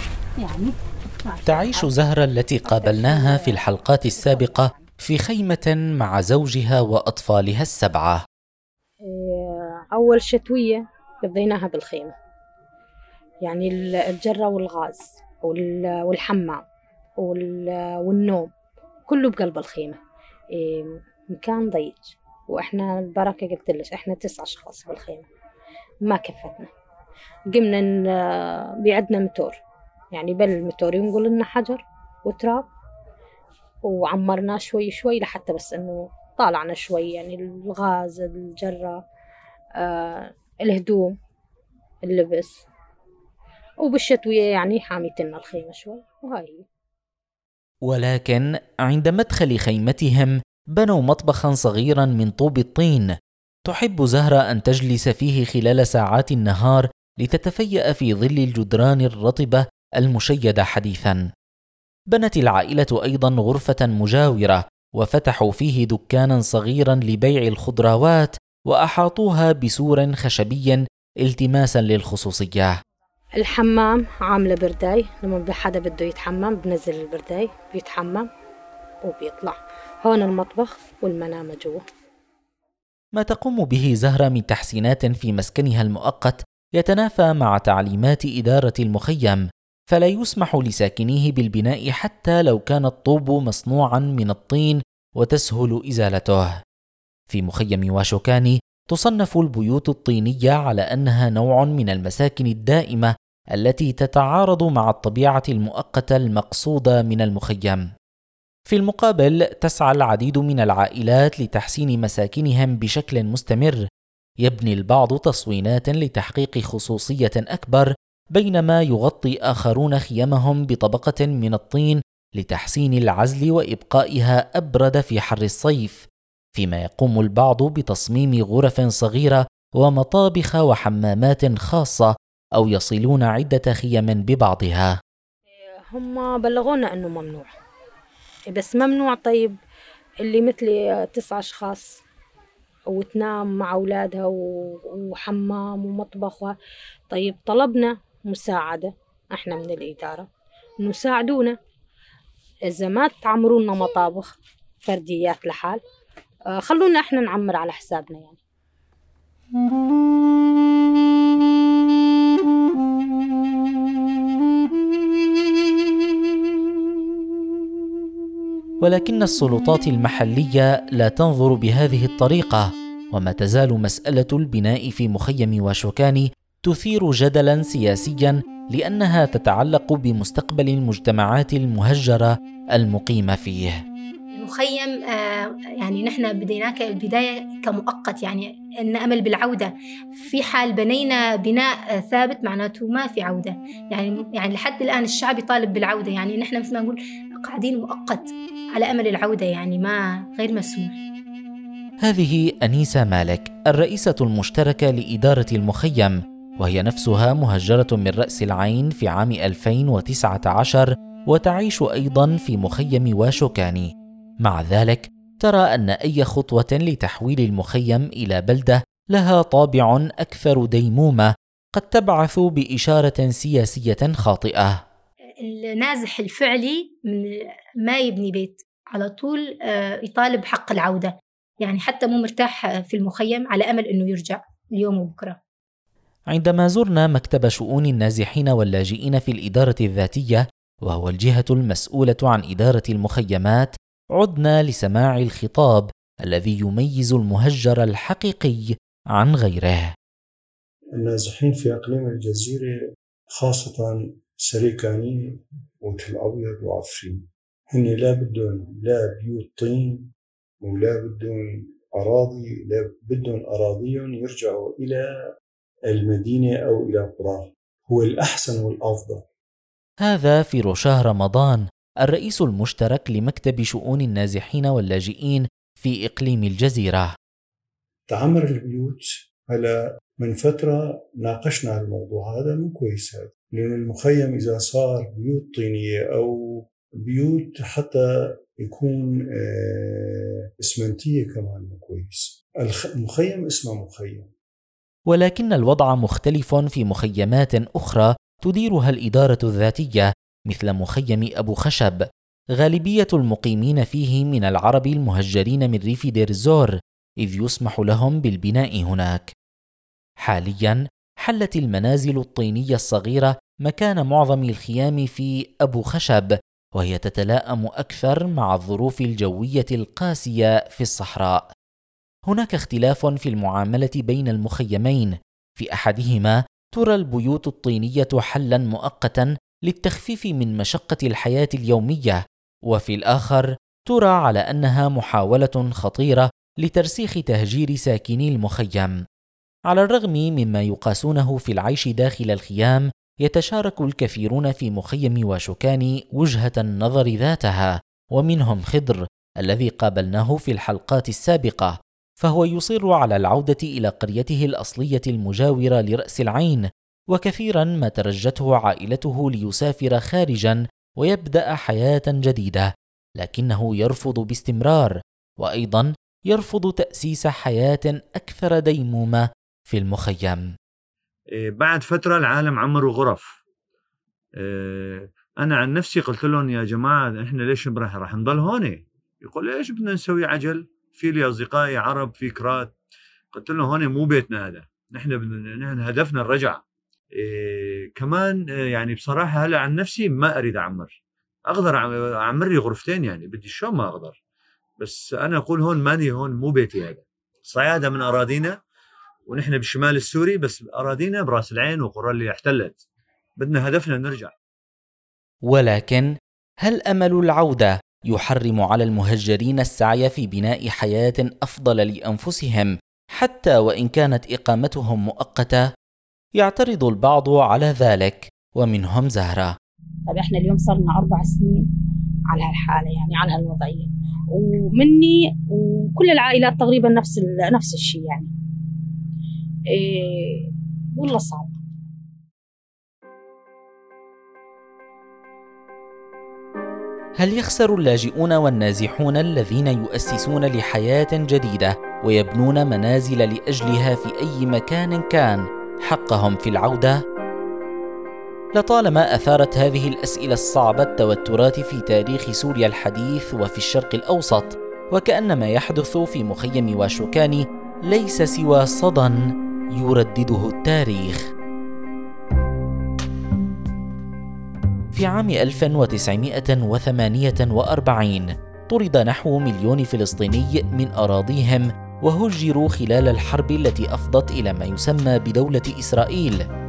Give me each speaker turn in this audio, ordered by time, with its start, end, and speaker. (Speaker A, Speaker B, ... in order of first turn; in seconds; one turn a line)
Speaker A: 0.4-1.9
Speaker B: 1.5-8.2
Speaker A: 2.6-4.8
Speaker A: 9.0-12.1
Speaker A: 13.4-16.6
Speaker A: 17.2-18.5
Speaker A: 19.1-20.0
Speaker A: 20.6-25.2
Speaker A: 26.1-26.7
Speaker A: 27.5-29.6
Speaker A: 30.1-32.6
Speaker A: 33.9-39.0
Speaker A: 39.8-41.1
Speaker A: 42.0-42.6
Speaker A: 43.8-46.6
Speaker B: 47.9-53.1
Speaker B: 53.7-61.2
Speaker B: 62.1-72.7
Speaker A: 73.4-78.3
Speaker A: 79.0-81.8
Speaker B: 83.2-96.5
Speaker B: 97.3-107.8
Speaker B: 108.7-113.8
Speaker B: 114.4-134.9
Speaker A: 135.6-137.5
Speaker A: 138.5-139.6
Speaker A: 140.2-142.0
Speaker A: 142.9-146.6
Speaker A: 147.1-150.3
Speaker A: 150.8-151.6
Speaker A: 152.7-155.8
Speaker A: 156.6-158.4
Speaker B: 168.8-183.8
Speaker C: 184.3-200.9
Speaker B: 202.0-213.9
Speaker B: 214.4-224.8
Speaker C: 225.4-235.4
Speaker B: 236.3-249.9
Speaker D: 251.0-252.7
Speaker D: 253.3-253.9
Speaker D: 254.5-260.1
Speaker D: 260.6-265.0
Speaker D: 265.9-269.2
Speaker B: 270.0-277.1
Speaker D: 278.1-286.3
Speaker D: 287.1-288.0
Speaker D: 288.7-294.3
Speaker B: 295.1-302.0
Speaker B: 302.6-309.3
Speaker B: 310.2-321.4
Speaker B: 322.3-338.9
Speaker B: 339.7-370.4
Speaker E: 371.3-373.4
Speaker E: 374.4-382.7
Speaker E: 383.3-386.6
Speaker E: 387.1-390.9
Speaker E: 391.5-394.2
Speaker E: 394.8-398.6
Speaker E: 399.3-402.8
Speaker E: 403.4-404.3
Speaker B: 405.5-406.1
Speaker B: 406.6-415.6
Speaker B: 416.4-419.5
Speaker A: 420.1-421.7
Speaker A: 422.3-428.3
Speaker A: 429.7-431.6
Speaker B: 437.2-447.0
Speaker B: 448.6-461.2
Speaker B: 464.9-476.4